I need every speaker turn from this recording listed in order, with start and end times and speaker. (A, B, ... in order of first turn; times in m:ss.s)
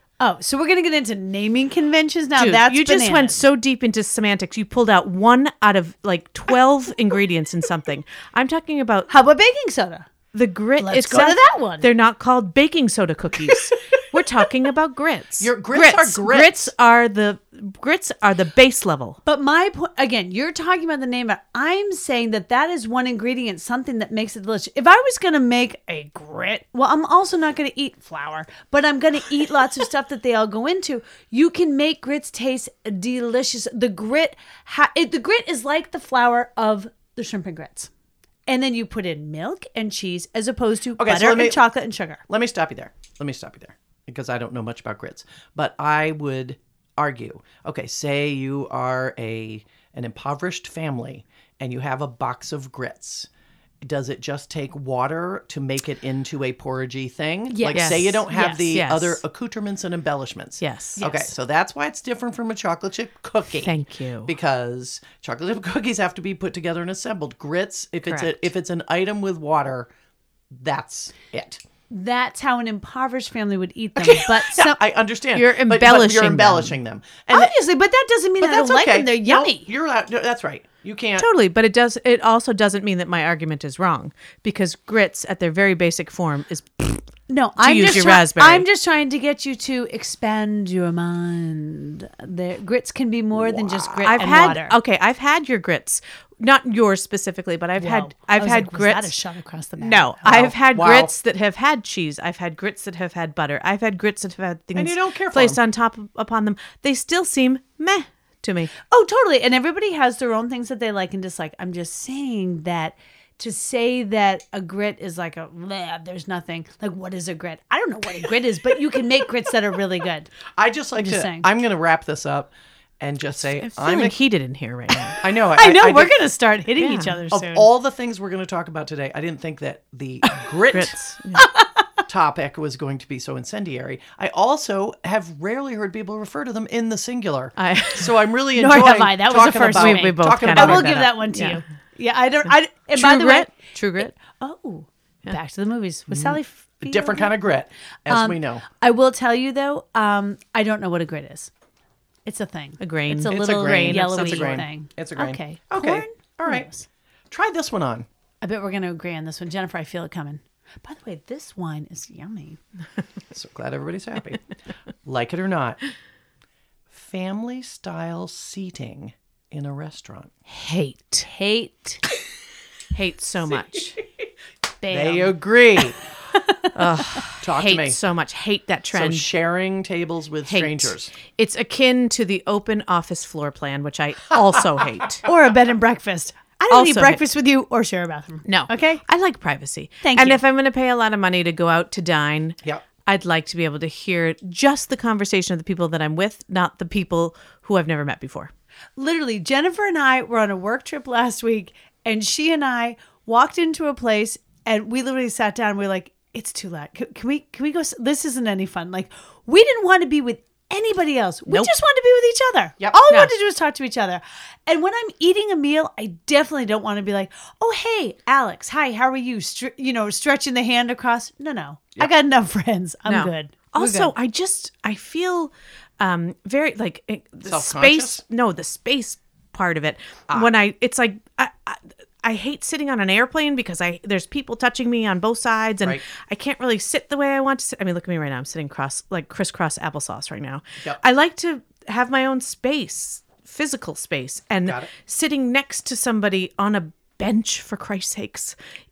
0:00.2-0:03.4 A
0:02.4-0:09.1 B
0:09.1-0:10.1 A
0:10.3-0:19.2 B
0:10.8-0:11.9 A
0:15.4-0:16.7 C
0:19.3-0:37.9 A
0:38.5-0:42.2 A
0:41.0-0:41.7 C
0:42.3-0:53.3 C
0:53.8-1:09.9 C
0:57.5-0:58.7 A
0:57.7-0:59.2 B
1:00.6-1:01.0 B
1:01.0-1:01.3 A
1:03.6-1:04.3 B
1:08.1-1:08.3 B
1:10.5-1:11.6 C
1:11.9-1:14.8 A
1:14.0-1:17.5 C
1:15.4-1:16.7 B
1:17.3-1:19.7 A
1:18.4-1:21.3 C
1:21.2-1:27.0 B
1:27.3-1:34.8 A
1:27.6-1:28.7 B
1:33.3-1:34.5 C
1:34.1-1:39.1 B
1:37.8-1:40.6 A
1:39.8-1:48.7 B
1:40.3-1:41.1 C
1:44.8-1:45.6 C
1:48.9-2:00.3 A
2:00.6-2:04.2 C
2:01.0-2:01.5 A
2:03.6-2:05.2 B
2:05.2-2:06.2 C
2:05.6-2:07.7 A
2:06.8-2:07.2 B
2:07.3-2:11.0 C
2:10.7-2:11.5 B
2:11.4-2:11.8 A
2:12.1-2:21.1 C
2:17.6-2:18.2 B
2:18.6-2:27.3 A
2:19.7-2:21.6 B
2:23.0-2:24.1 B
2:26.1-2:28.6 C
2:28.1-2:31.5 A
2:32.3-2:36.9 A
2:32.8-2:34.6 B
2:33.3-2:36.7 C
2:37.3-2:38.1 C
2:38.4-2:42.6 A
2:43.3-2:44.4 C
2:45.0-2:45.8 C
2:46.9-2:50.3 C
2:50.5-2:52.0 A
2:52.9-2:54.0 B
2:54.8-2:55.4 A
2:54.9-2:56.0 C
2:56.5-2:56.7 A
2:56.8-2:59.3 B
2:57.4-2:58.0 C
2:58.9-3:01.1 C
3:00.5-3:05.2 B
3:05.2-3:09.0 A
3:06.7-3:07.2 B
3:08.5-3:18.5 B
3:10.0-3:10.4 A
3:19.0-3:44.1 A
3:43.1-4:08.6 B
3:47.4-3:48.2 C
4:04.6-4:04.9 C